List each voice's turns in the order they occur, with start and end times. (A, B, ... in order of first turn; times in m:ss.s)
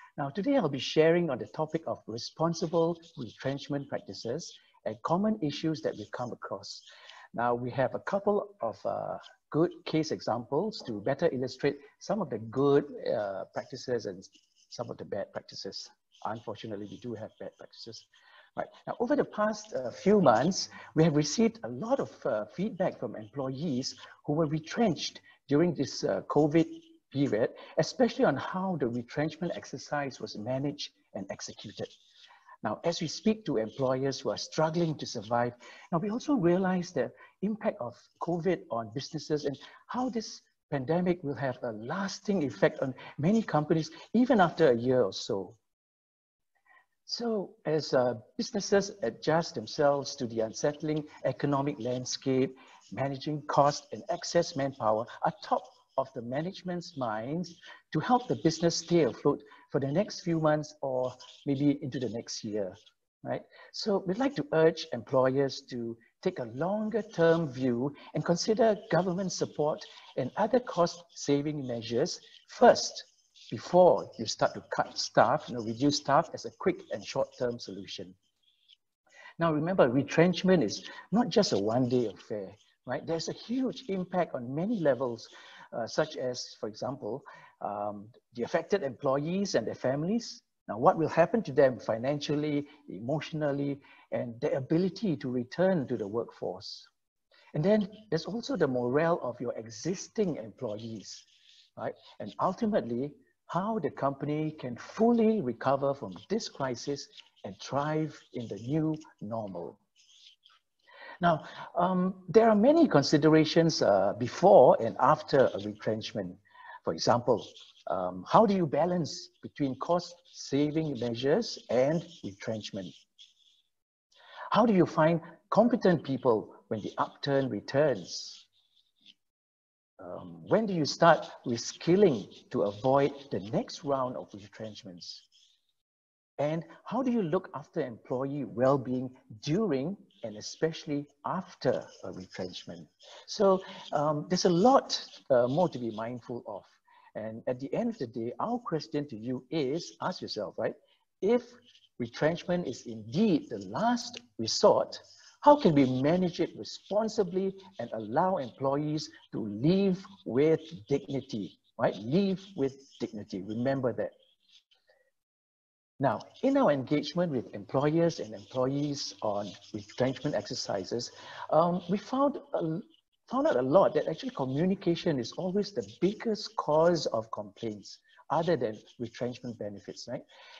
0:00.2-0:31.9 A
0:32.6-0:45.6 A
0:47.1-1:18.2 A
1:19.4-1:36.9 A
1:37.5-1:41.3 A
1:41.8-1:49.8 A
1:51.2-2:02.9 A
2:04.5-2:08.4 A
2:10.0-2:15.2 A
2:16.4-2:44.1 A
2:46.0-3:00.2 A